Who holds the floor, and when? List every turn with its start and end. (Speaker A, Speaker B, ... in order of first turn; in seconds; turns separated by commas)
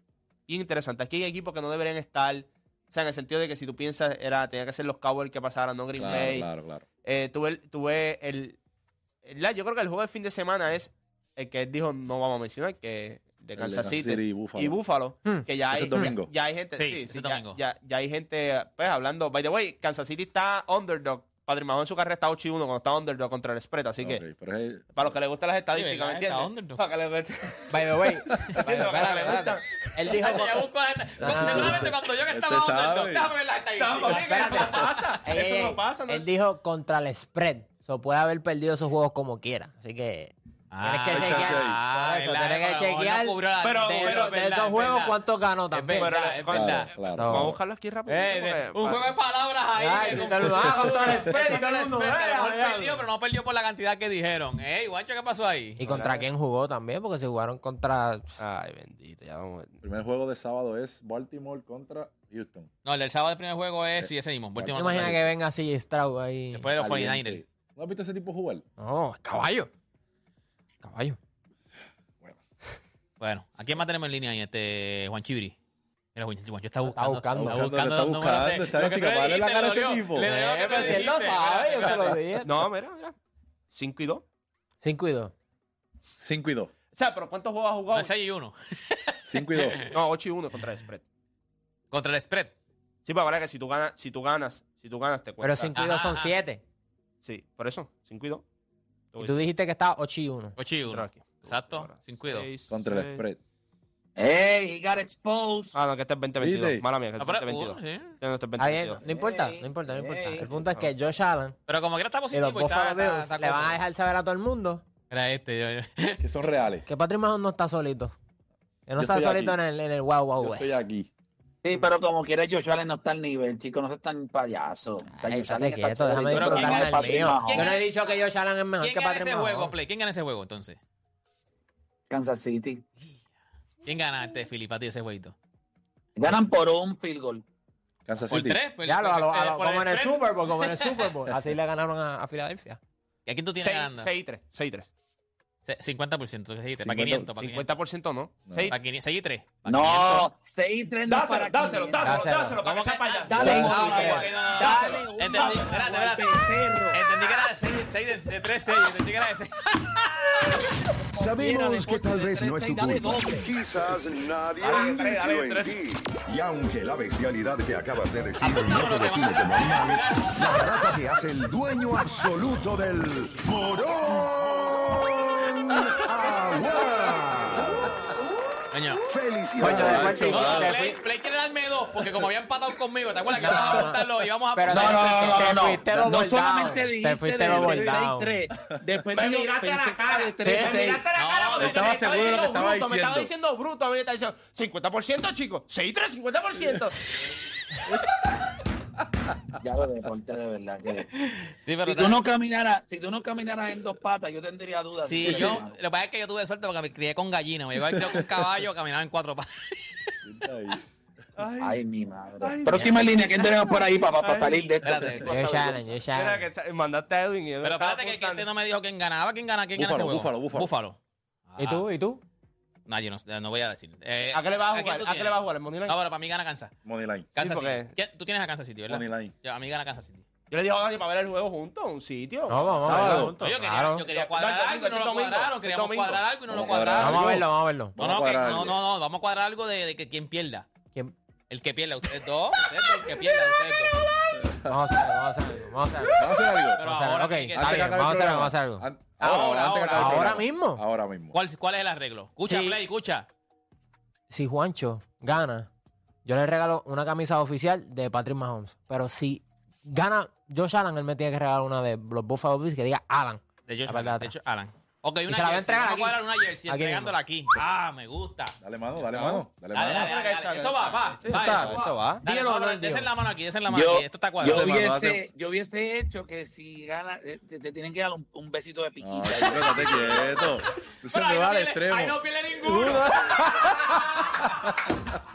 Speaker A: 0.5-6.5, Speaker B: 6.0-6.8, Speaker A: 7.0-8.6, Speaker A: 9.2-24.2, Speaker B: 13.6-14.8, Speaker B: 15.7-16.3, Speaker C: 16.8-17.6, Speaker B: 24.0-25.1, Speaker A: 24.9-27.8, Speaker C: 25.7-26.8, Speaker D: 27.7-30.7, Speaker A: 28.6-30.3, Speaker C: 30.0-35.1, Speaker D: 31.2-31.9, Speaker B: 31.3-33.3, Speaker A: 33.8-36.3, Speaker D: 34.1-43.4, Speaker C: 40.7-45.2, Speaker B: 41.1-41.8, Speaker A: 43.6-44.3, Speaker D: 43.9-46.2, Speaker C: 45.7-46.9, Speaker A: 46.0-49.1, Speaker B: 46.5-47.6, Speaker D: 47.1-47.5, Speaker C: 48.1-55.8, Speaker D: 49.8-53.0, Speaker D: 55.8-58.4, Speaker A: 55.8-56.2, Speaker A: 58.4-59.8, Speaker B: 59.8-62.7, Speaker C: 62.8-65.2, Speaker B: 64.0-65.2, Speaker D: 64.7-66.7, Speaker C: 66.5-67.4, Speaker B: 66.8-68.6, Speaker D: 68.8-69.7, Speaker D: 70.8-71.2, Speaker C: 73.2-75.5, Speaker C: 76.1-82.2, Speaker D: 76.9-77.7, Speaker B: 77.3-80.3, Speaker A: 80.3-81.2, Speaker D: 80.4-82.7, Speaker A: 81.8-83.2, Speaker A: 83.7-84.2, Speaker D: 84.8-85.3, Speaker B: 86.2-86.7, Speaker A: 86.9-88.1, Speaker C: 87.9-89.9, Speaker B: 89.2-89.8, Speaker A: 89.8-91.0, Speaker C: 91.9-92.5, Speaker A: 93.0-95.8, Speaker D: 95.4-96.6, Speaker C: 95.7-96.3, Speaker A: 97.2-98.4, Speaker D: 99.2-100.5, Speaker C: 100.6-102.5, Speaker A: 100.9-103.2, Speaker B: 102.7-103.4, Speaker E: 104.2-105.7, Speaker A: 105.7-109.0, Speaker B: 106.4-106.8, Speaker C: 107.2-108.2, Speaker D: 108.6-111.5, Speaker E: 109.0-110.6, Speaker C: 111.7-113.8, Speaker D: 112.3-114.8, Speaker C: 115.1-116.2, Speaker B: 116.2-116.8, Speaker D: 116.8-118.1, Speaker D: 118.9-120.8, Speaker B: 119.0-119.6, Speaker B: 120.4-121.1, Speaker E: 121.6-127.8, Speaker D: 125.1-129.7, Speaker C: 126.3-128.1, Speaker C: 128.8-130.8, Speaker E: 132.1-132.8, Speaker C: 133.8-135.3, Speaker E: 136.2-137.4, Speaker B: 138.1-138.6, Speaker C: 138.3-141.1, Speaker D: 138.8-142.8, Speaker C: 143.2-144.1, Speaker A: 143.6-144.9, Speaker C: 145.6-147.7, Speaker B: 146.8-147.3, Speaker A: 147.4-148.8, Speaker B: 148.5-148.7, Speaker C: 148.7-150.3, Speaker E: 149.7-152.2, Speaker A: 151.0-155.4, Speaker D: 152.0-152.6, Speaker C: 152.6-160.6, Speaker E: 153.3-157.0, Speaker D: 153.3-154.4, Speaker E: 161.0-163.5, Speaker F: 161.1-177.8, Speaker A: 164.6-165.7, Speaker C: 168.4-170.7, Speaker C: 178.7-179.0, Speaker F: 179.1-180.6, Speaker D: 179.6-181.0, Speaker B: 179.6-180.7, Speaker C: 179.8-185.8, Speaker D: 183.3-184.0, Speaker D: 184.5-188.4, Speaker E: 184.7-191.0, Speaker A: 189.1-197.0, Speaker D: 189.2-191.8, Speaker C: 191.1-191.9, Speaker B: 191.6-193.3, Speaker E: 199.6-201.1, Speaker C: 201.3-202.2, Speaker E: 201.8-205.8, Speaker C: 204.9-210.1, Speaker B: 205.2-205.6, Speaker B: 207.9-208.2, Speaker B: 210.2-210.8, Speaker A: 211.4-211.8, Speaker E: 211.6-215.8, Speaker A: 212.4-215.1, Speaker C: 214.8-215.3, Speaker D: 215.2-216.4, Speaker A: 216.1-218.5, Speaker C: 217.6-221.0, Speaker B: 219.8-220.7, Speaker C: 221.5-221.9, Speaker D: 221.6-222.2, Speaker C: 222.8-226.7, Speaker A: 224.3-225.9, Speaker B: 226.8-227.3, Speaker C: 227.3-230.2, Speaker A: 227.4-227.9, Speaker B: 228.9-229.3, Speaker A: 230.5-233.3, Speaker D: 232.5-234.0, Speaker B: 232.8-233.4, Speaker C: 233.2-237.4, Speaker A: 234.1-236.2, Speaker B: 236.5-238.8, Speaker D: 237.0-237.9, Speaker C: 238.0-240.7, Speaker C: 241.5-243.9, Speaker B: 244.4-244.7, Speaker D: 244.7-246.2, Speaker B: 246.2-246.8, Speaker C: 246.8-248.2, Speaker D: 246.8-249.3, Speaker B: 247.5-251.4, Speaker C: 249.2-250.4, Speaker D: 249.9-250.8, Speaker C: 251.3-253.3, Speaker D: 252.5-252.8, Speaker D: 254.3-255.7, Speaker D: 256.2-264.3, Speaker C: 263.7-268.6, Speaker D: 265.3-267.1, Speaker B: 268.6-270.1, Speaker A: 269.0-272.2, Speaker C: 269.7-274.8, Speaker B: 271.3-271.7, Speaker D: 271.7-273.1, Speaker E: 273.7-280.4, Speaker B: 274.4-275.2, Speaker B: 279.0-284.9, Speaker C: 279.9-280.4, Speaker C: 281.1-283.7